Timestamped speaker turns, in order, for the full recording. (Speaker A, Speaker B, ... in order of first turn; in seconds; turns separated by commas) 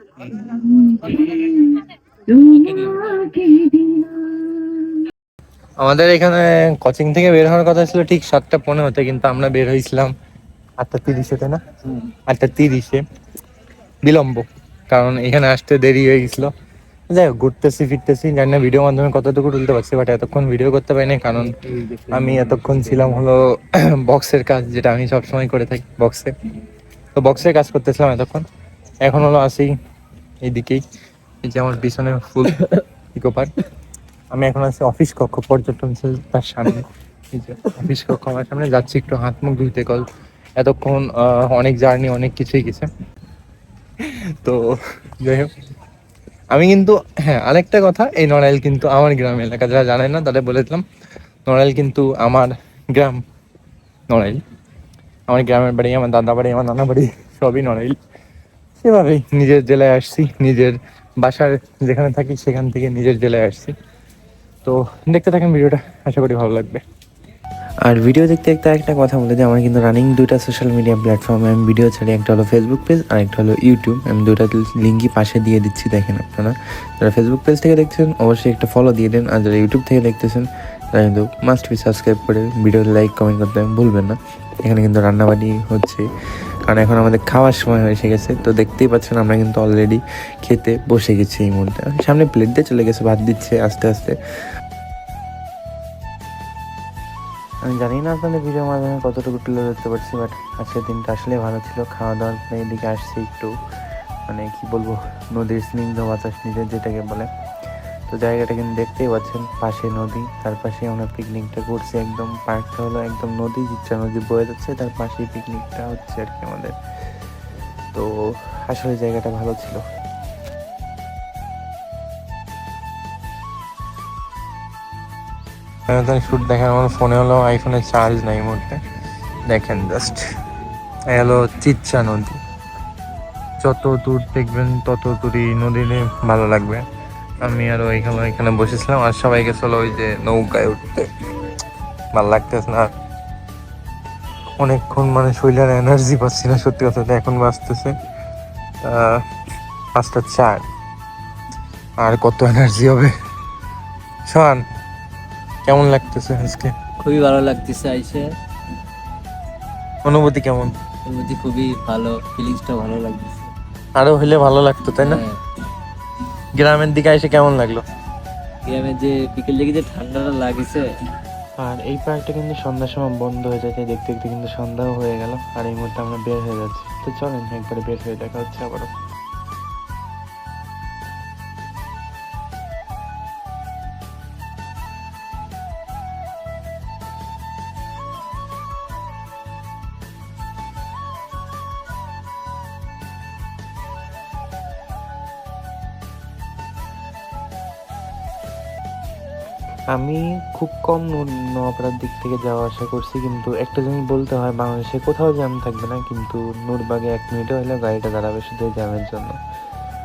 Speaker A: 0.2-5.1, Speaker B: 5.8-10.1, Speaker B: 10.8-13.0, Speaker B: 14.0-16.5, Speaker B: 17.1-26.3, Speaker B: 27.1-28.4, Speaker B: 29.0-29.7, Speaker B: 30.4-30.8, Speaker B: 31.4-33.6, Speaker B: 34.3-40.0, Speaker B: 40.6-42.9, Speaker B: 44.0-45.5, Speaker B: 46.5-50.8, Speaker B: 51.5-53.2, Speaker B: 54.1-54.4, Speaker B: 55.3-58.0, Speaker B: 58.8-63.7, Speaker B: 64.6-66.8, Speaker C: 67.8-86.0, Speaker C: 86.7-94.2, Speaker C: 97.7-103.5, Speaker C: 104.3-107.3, Speaker C: 108.1-116.7, Speaker C: 117.9-119.8, Speaker B: 125.9-128.8, Speaker B: 129.5-130.2, Speaker B: 131.1-132.4, Speaker B: 133.6-136.8, Speaker B: 137.4-141.1, Speaker B: 142.1-142.9, Speaker B: 144.6-147.9, Speaker B: 148.8-149.2, Speaker B: 150.0-150.7, Speaker B: 152.0-153.1, Speaker B: 154.3-154.6, Speaker B: 155.6-156.7, Speaker A: 157.0-158.3, Speaker B: 160.0-160.7, Speaker A: 161.1-163.4, Speaker B: 163.9-165.2, Speaker B: 166.5-167.8, Speaker A: 168.7-170.8, Speaker C: 171.6-178.9, Speaker C: 199.9-209.3